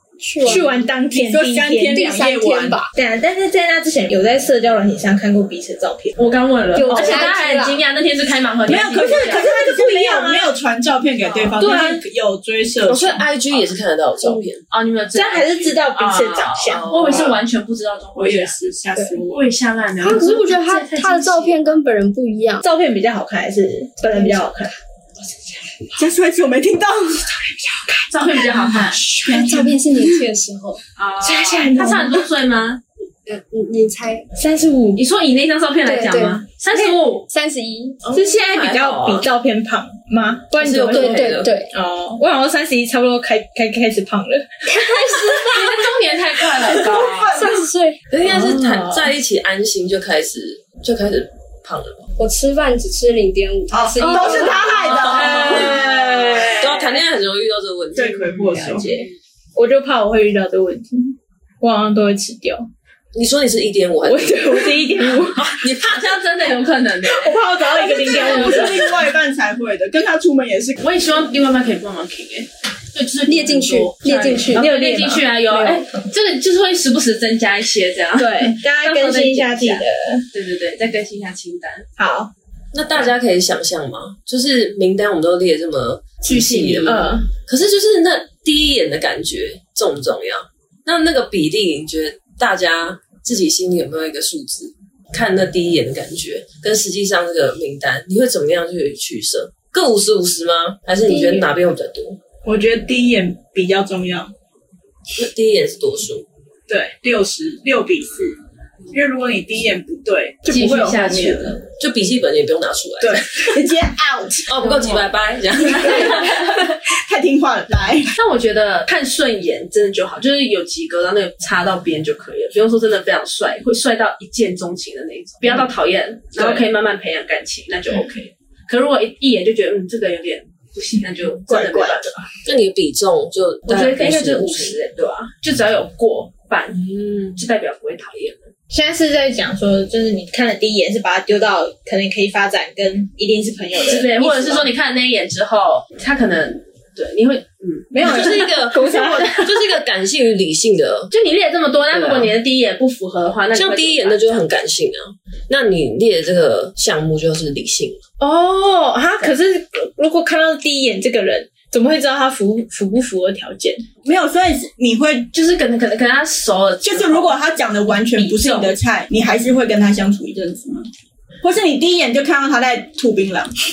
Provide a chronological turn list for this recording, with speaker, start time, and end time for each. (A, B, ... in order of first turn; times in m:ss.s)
0:00.2-0:00.8 A
0:00.4-0:02.4 B
0:00.5-0:02.8 C
0:01.9-0:02.9 A
0:02.9-0:06.1 B
0:06.2-0:09.5 D
0:06.8-0:07.8 A
0:06.8-0:07.3 B
0:08.7-0:13.6 C
0:08.9-0:10.5 B
0:11.4-0:12.0 B
0:12.9-0:14.6 E
0:14.7-0:18.6 D
0:15.1-0:17.4 B
0:16.7-0:17.3 E
0:18.2-0:19.5 B
0:19.3-0:21.6 D
0:20.0-0:22.6 A
0:22.6-0:24.7 B
0:24.2-0:24.5 A
0:26.0-0:30.2 C
0:28.1-0:29.0 D
0:29.2-0:30.8 A
0:31.0-0:32.8 D
0:31.2-0:32.3 B
0:33.3-0:34.3 A
0:34.4-0:35.0 B
0:35.0-0:37.3 D
0:35.8-0:36.4 A
0:37.3-0:38.0 A
0:38.1-0:45.3 B
0:38.3-0:39.2 E
0:40.5-0:41.5 E
0:40.9-0:41.7 A
0:44.7-0:45.8 A
0:45.5-0:47.4 D
0:46.6-0:47.6 C
0:47.3-0:48.0 A
0:48.1-0:52.1 E
0:48.3-0:49.0 B
0:52.2-0:54.9 A
0:53.7-0:56.7 C
0:54.1-0:56.7 B
0:55.0-0:55.9 E
0:56.6-0:58.6 E
0:57.9-0:58.9 C
0:58.2-1:02.7 B
1:03.1-1:06.2 E
1:04.0-1:05.6 B
1:05.7-1:07.4 D
1:07.0-1:09.0 B
1:07.8-1:10.8 C
1:08.0-1:08.8 D
1:10.8-1:21.9 D
1:13.3-1:14.9 A
1:14.6-1:15.2 B
1:15.5-1:15.8 A
1:18.2-1:20.3 B
1:22.0-1:22.3 B
1:22.7-1:42.2 E
1:26.2-1:27.2 D
1:26.8-1:27.3 B
1:41.1-1:41.5 A
1:42.4-1:44.3 C
1:45.2-1:46.2 E
1:46.7-1:48.4 C
1:48.9-1:51.6 C
1:50.5-1:51.6 D
1:51.8-1:53.7 E
1:53.0-1:54.5 C
1:54.5-1:56.6 E
1:55.7-1:58.1 C
1:58.2-2:12.3 D
2:11.5-2:12.3 C
2:12.4-2:14.8 E
2:13.7-2:18.5 D
2:16.8-2:17.4 E
2:18.7-2:24.7 B
2:23.8-2:28.5 D
2:27.9-2:29.6 B
2:28.0-2:31.1 E
2:31.1-2:34.5 D
2:31.9-2:32.3 E
2:33.5-2:38.0 E
2:38.2-2:43.9 B
2:44.0-2:45.3 C
2:45.3-2:47.4 D
2:46.8-2:50.9 C
2:48.1-2:48.8 D
2:51.4-2:53.5 C